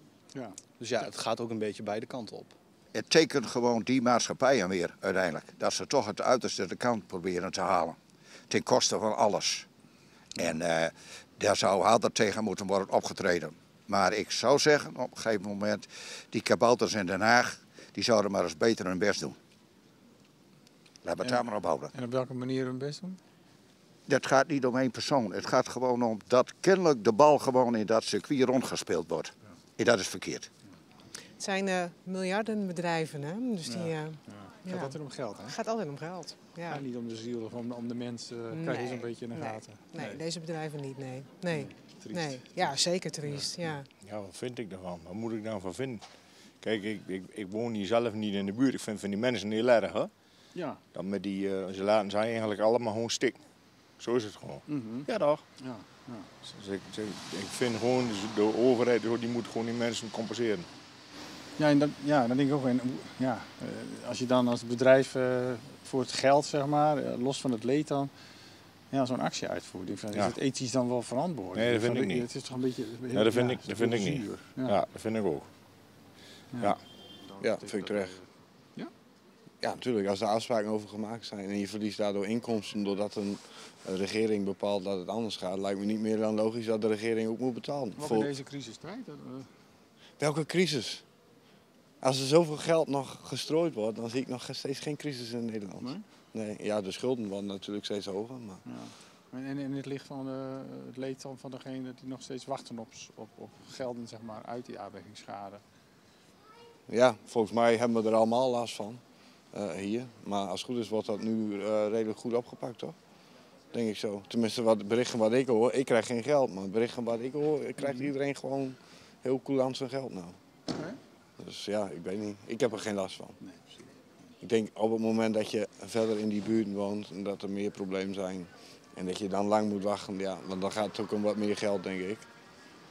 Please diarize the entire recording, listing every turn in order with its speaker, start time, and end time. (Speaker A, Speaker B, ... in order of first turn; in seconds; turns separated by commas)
Speaker A: 0.3-1.1, Speaker B: 0.8-2.5, Speaker C: 2.9-8.0, Speaker C: 8.5-9.7, Speaker C: 10.4-19.3, Speaker C: 21.0-21.6, Speaker A: 21.2-23.2, Speaker C: 24.1-30.5, Speaker D: 31.4-34.2, Speaker A: 33.6-35.5, Speaker D: 34.7-34.9, Speaker D: 35.5-36.8, Speaker A: 36.6-40.2, Speaker D: 38.5-43.8, Speaker C: 40.5-40.9, Speaker A: 41.5-42.4, Speaker B: 41.6-42.8, Speaker C: 42.6-42.9, Speaker E: 44.0-46.0, Speaker E: 46.6-50.1, Speaker A: 50.5-50.8, Speaker E: 50.9-53.4, Speaker E: 54.0-55.4, Speaker A: 54.7-55.1, Speaker A: 55.6-56.3, Speaker E: 56.4-60.7, Speaker A: 61.6-68.1, Speaker A: 68.9-74.8, Speaker E: 71.5-72.3, Speaker E: 73.1-75.5, Speaker A: 77.3-78.2, Speaker F: 77.4-78.2, Speaker F: 79.6-88.3, Speaker A: 88.0-89.5, Speaker F: 90.2-91.0, Speaker F: 92.0-98.6, Speaker A: 95.8-96.0, Speaker A: 98.6-105.6, Speaker F: 106.9-109.0, Speaker F: 109.5-112.9, Speaker F: 113.7-120.4, Speaker F: 121.4-123.3, Speaker F: 124.4-132.3